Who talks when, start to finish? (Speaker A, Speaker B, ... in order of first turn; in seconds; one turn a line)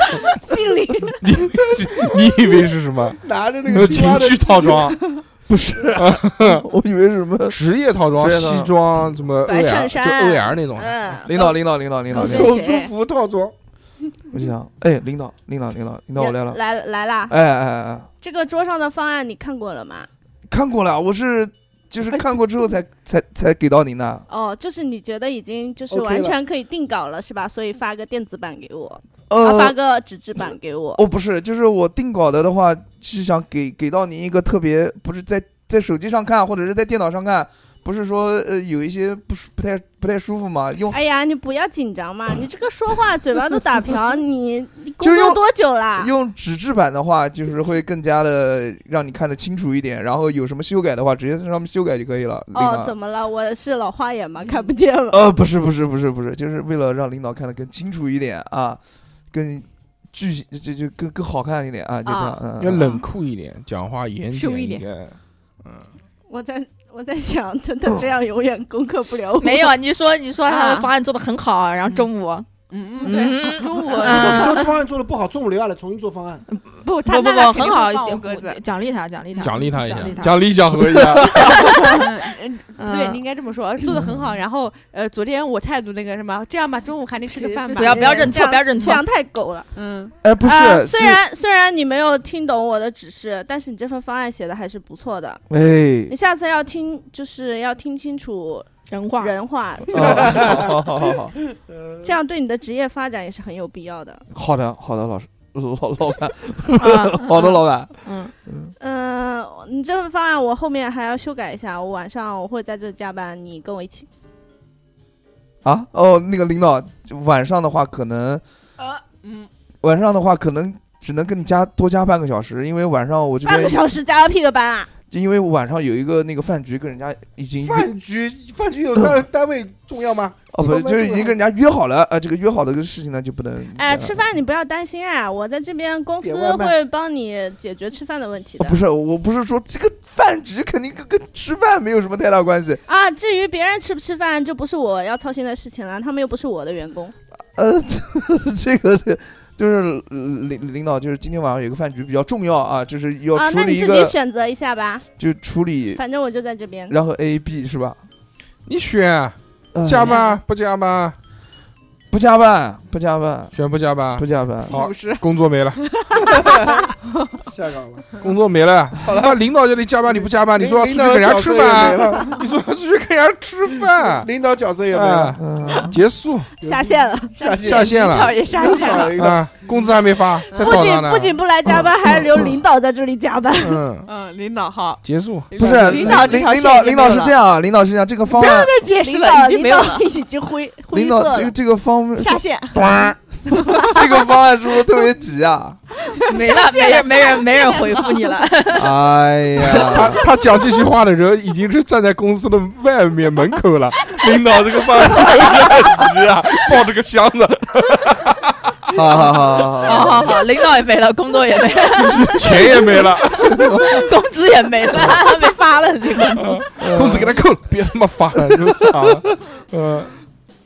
Speaker A: 0.5-1.2
Speaker B: 1.2-5.0
Speaker C: 1.6-2.2
Speaker C: 3.2-5.0
Speaker D: 5.5-7.6
Speaker B: 6.0-6.6
Speaker B: 7.5-11.2
Speaker D: 8.2-8.7
Speaker A: 9.5-11.6
Speaker D: 11.3-12.6
Speaker A: 12.1-12.9
Speaker C: 12.1-13.5
Speaker D: 14.3-16.6
Speaker A: 16.2-17.3
Speaker D: 17.3-18.1
Speaker A: 18.2-20.1
Speaker D: 20.5-24.2
Speaker A: 24.3-31.0
Speaker C: 25.9-26.4
Speaker D: 29.3-29.8
Speaker D: 31.0-41.0
Speaker A: 40.9-46.1
Speaker D: 45.0-45.4
Speaker D: 46.0-52.9
Speaker A: 52.5-55.2
Speaker D: 55.1-58.8
Speaker D: 59.3-63.0
Speaker E: 62.1-63.0
Speaker B: 62.6-65.9
Speaker E: 64.3-64.8
Speaker A: 66.3-69.8
Speaker F: 69.4-72.5
Speaker E: 70.5-70.9
Speaker E: 72.7-74.7
Speaker F: 73.0-74.7
Speaker C: 74.0-76.5
Speaker F: 76.5-80.4
Speaker E: 76.8-78.6
Speaker E: 79.4-80.2
Speaker B: 79.4-81.5
Speaker D: 80.8-81.5
Speaker F: 81.5-82.0
Speaker E: 81.7-88.3
Speaker F: 82.8-83.2
Speaker A: 87.3-89.7
Speaker F: 87.8-89.0
Speaker E: 89.7-90.1
Speaker D: 90.2-91.2
Speaker A: 90.4-95.5
Speaker D: 95.5-96.1
Speaker A: 96.1-98.7
Speaker F: 98.9-99.4
Speaker A: 99.2-100.7
Speaker D: 99.9-101.3
Speaker C: 100.0-100.8
Speaker A: 102.0-104.2
Speaker D: 104.3-108.7
Speaker F: 106.8-108.3
Speaker A: 108.8-114.1
Speaker D: 115.6-118.4
Speaker E: 118.8-119.5
Speaker D: 119.8-123.8
Speaker A: 123.5-124.9
Speaker D: 125.1-127.9
Speaker C: 127.6-131.4
Speaker D: 130.5-134.2
Speaker A: 133.8-138.8
Speaker C: 136.2-136.7
Speaker D: 138.6-142.8
Speaker A: 142.9-147.1
Speaker D: 147.6-154.1
Speaker A: 153.3-155.1
Speaker D: 155.2-156.0
Speaker A: 156.0-156.9
Speaker D: 156.9-158.0
Speaker B: 158.7-161.2
Speaker D: 159.7-160.2
Speaker E: 160.0-160.3
Speaker D: 162.1-163.6
Speaker B: 163.5-165.8
Speaker D: 164.2-164.8
Speaker E: 164.7-165.2
Speaker E: 165.8-167.3
Speaker C: 166.2-166.9
Speaker C: 167.5-168.1
Speaker B: 168.2-174.3
Speaker C: 169.0-169.4
Speaker C: 170.1-172.4
Speaker C: 174.1-175.9
Speaker B: 174.9-176.5
Speaker D: 175.4-175.9
Speaker A: 176.6-177.6
Speaker C: 176.6-177.9
Speaker E: 177.4-179.2
Speaker B: 177.6-178.4
Speaker C: 178.5-179.5
Speaker B: 179.2-181.4
Speaker A: 180.5-183.8
Speaker B: 183.6-184.1
Speaker E: 184.1-187.4
Speaker B: 185.0-185.5
Speaker D: 185.6-188.7
Speaker C: 185.6-186.4
Speaker E: 188.3-189.4
Speaker F: 189.1-190.1
Speaker A: 189.1-191.5
Speaker D: 190.9-192.4
Speaker E: 192.2-192.9
Speaker B: 192.8-193.2
Speaker D: 192.9-195.8
Speaker E: 193.5-194.3
Speaker E: 196.1-198.4
Speaker F: 196.3-199.0
Speaker D: 198.7-200.2
Speaker B: 199.7-209.0
Speaker D: 208.9-210.4
Speaker F: 209.8-212.7
Speaker D: 211.9-214.1
Speaker B: 212.3-213.7
Speaker F: 213.8-216.6
Speaker B: 216.4-220.1
Speaker D: 216.8-217.4
Speaker D: 218.5-219.3